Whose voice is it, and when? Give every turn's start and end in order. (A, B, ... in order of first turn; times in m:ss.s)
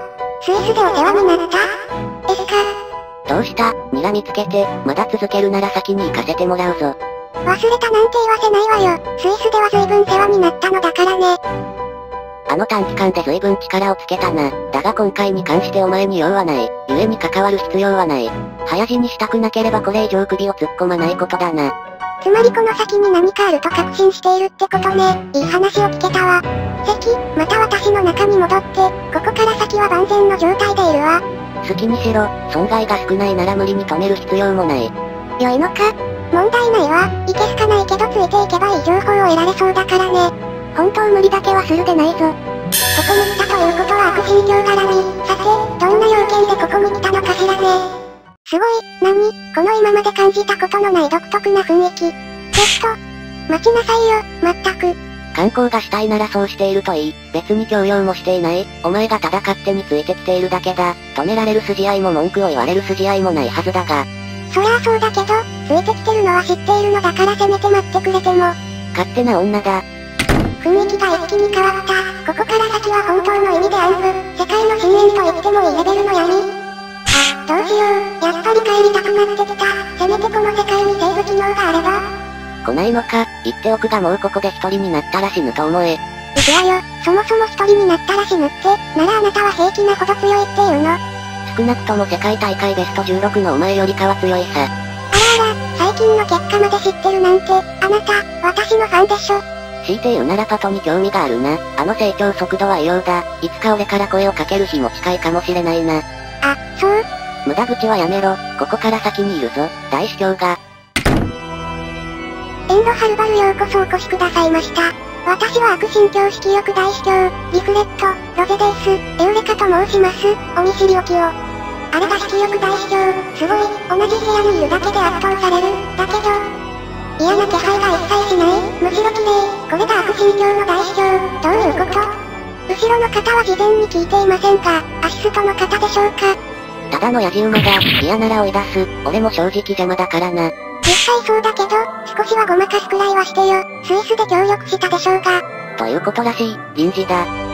0:00.4-0:01.7 A
0:02.3-0:02.7 A
0:03.3-0:07.0 B
0:07.5-0:11.4 A
0:12.5-0:21.7 B
0:22.2-0:31.2 A
0:31.6-0:34.9 B
0:35.4-0:42.4 A
0:42.9-0:47.9 A
0:48.5-0:53.0 A
0:53.5-0:55.0 A
0:55.3-1:04.1 B
1:04.5-1:08.6 A
1:08.9-1:09.8 B
1:10.6-1:16.5 A
1:17.1-1:22.0 A
1:22.6-1:26.0 B
1:26.4-1:31.0 A
1:31.4-1:34.7 B
1:35.1-1:39.4 A
1:39.8-1:46.0 B
1:46.4-1:47.0 A
1:47.5-1:50.6 B
1:52.7-2:01.3 A
2:01.9-2:06.5 A
2:07.2-2:16.4 A
2:16.9-2:20.5 B
2:20.8-2:25.4 A
2:25.8-2:27.3 B